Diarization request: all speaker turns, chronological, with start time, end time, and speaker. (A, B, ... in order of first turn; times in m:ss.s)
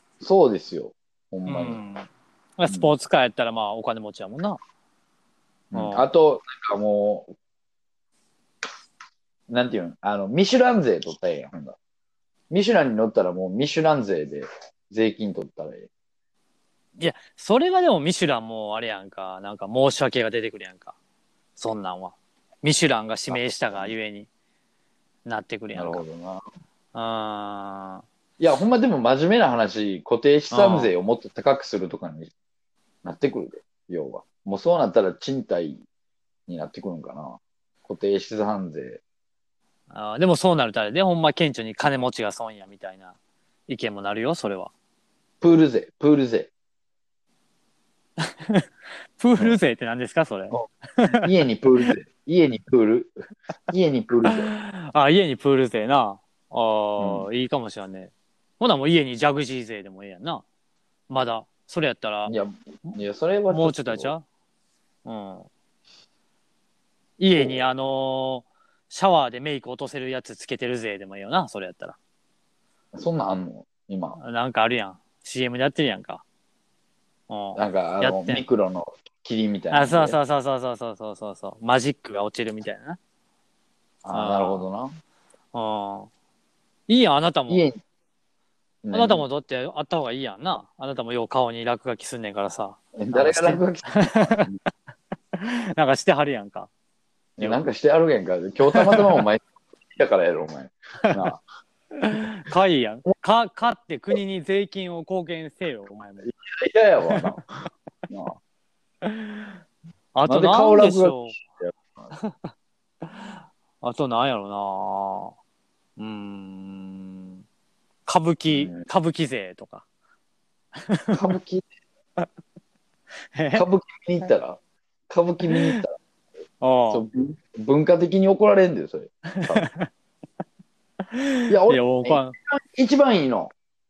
0:00.2-0:01.8 A
0:01.5-0:04.6 B
0:02.7-0:02.9 A
0:05.7-0:07.3 A
0:05.7-0:06.1 B
0:09.5-0:11.8 A
0:12.5-0:15.9 A
0:17.0-0:20.9 B
0:21.6-0:24.3 B
0:23.3-0:23.9 A
0:25.3-0:26.0 B
0:25.8-0:26.4 A
0:26.9-0:28.0 B
0:28.4-0:32.3 A
0:30.5-0:30.9 B
0:33.0-0:35.8 A
0:36.5-0:39.0 A
0:39.9-0:43.1 B
0:43.7-0:44.7 B
0:45.4-0:46.5 A
0:49.2-0:51.3 B
0:50.5-0:53.2 A
0:53.7-0:54.5 A
0:54.3-1:00.4 B
0:57.0-0:57.3 A
1:01.1-1:02.3 B
1:02.3-1:04.1 A
1:03.5-1:04.2 B
1:05.0-1:05.5 B
1:07.2-1:12.0 B
1:07.4-1:07.7 A
1:12.9-1:14.2 A
1:14.2-1:16.2 B
1:17.3-1:18.4 B
1:17.6-1:20.2 A
1:19.7-1:23.0 B
1:24.0-1:24.9 A
1:24.1-1:24.7 B
1:25.5-1:26.1 B
1:26.9-1:27.6 B
1:27.5-1:27.8 A
1:28.8-1:29.3 A
1:28.9-1:34.5 B
1:33.0-1:34.5 A
1:35.4-1:36.7 B
1:37.4-1:41.4 A
1:38.7-1:39.2 B
1:42.0-1:46.3 B
1:46.2-1:47.4 A
1:47.1-1:47.4 B
1:48.1-1:48.4 A
1:49.0-1:49.5 B
1:50.1-1:51.4 B
1:50.3-1:52.1 A
1:53.1-1:55.3 B
1:56.0-1:57.4 B
1:58.1-1:59.8 B
1:58.5-1:58.8 A
2:00.9-2:01.2 B
2:01.1-2:01.7 A
2:03.4-2:03.6 B
2:03.5-2:05.9 A
2:05.5-2:05.8 B
2:06.6-2:07.0 B
2:06.9-2:09.7 A
2:09.4-2:09.9 B
2:11.1-2:12.3 B
2:11.5-2:13.5 A